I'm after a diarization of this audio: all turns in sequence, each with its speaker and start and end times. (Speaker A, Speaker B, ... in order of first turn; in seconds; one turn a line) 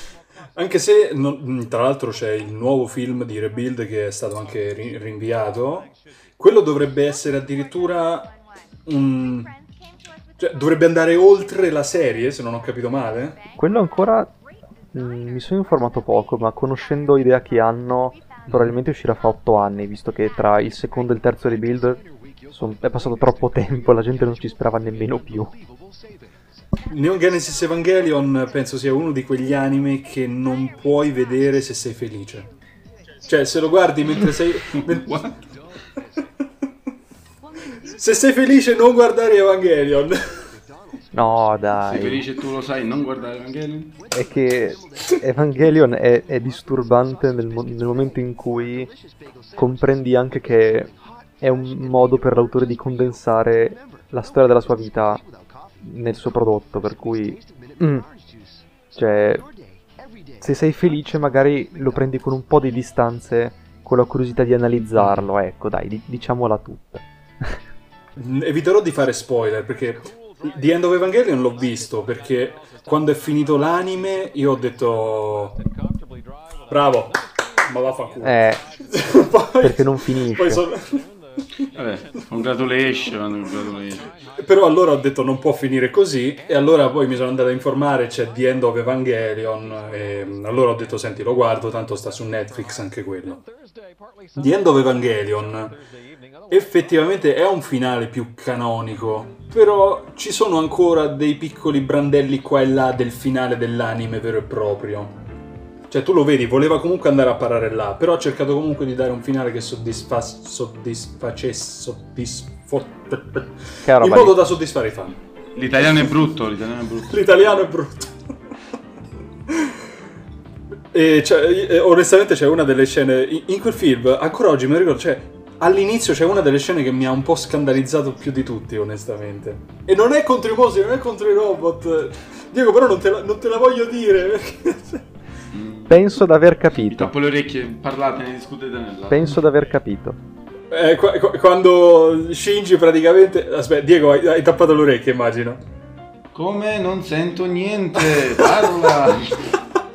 Speaker A: 0.6-8.3
Speaker A: 8.8-9.5
Speaker A: 10.4-13.4
Speaker B: 13.6-14.3
Speaker B: 14.9-25.5
Speaker A: 18.5-18.8
Speaker A: 26.9-32.5
Speaker A: 33.2-35.3
Speaker C: 34.2-35.3
Speaker A: 37.8-40.5
Speaker B: 41.1-42.2
Speaker C: 41.8-44.0
Speaker B: 44.1-48.9
Speaker B: 49.5-55.2
Speaker B: 55.8-58.0
Speaker B: 58.9-59.5
Speaker B: 60.4-67.6
Speaker A: 68.1-75.6
Speaker A: 76.7-81.0
Speaker B: 78.2-78.6
Speaker B: 79.6-80.6
Speaker C: 81.7-84.1
Speaker A: 84.3-93.4
Speaker A: 94.3-95.8
Speaker A: 96.5-105.2
Speaker A: 105.9-115.2
Speaker B: 113.8-114.4
Speaker C: 115.5-117.7
Speaker A: 117.0-118.1
Speaker A: 119.5-119.9
Speaker A: 120.9-135.0
Speaker C: 135.5-136.1
Speaker B: 135.9-137.1
Speaker C: 136.9-139.5
Speaker B: 139.1-140.2
Speaker A: 140.7-145.6
Speaker C: 146.3-149.5
Speaker A: 148.0-149.6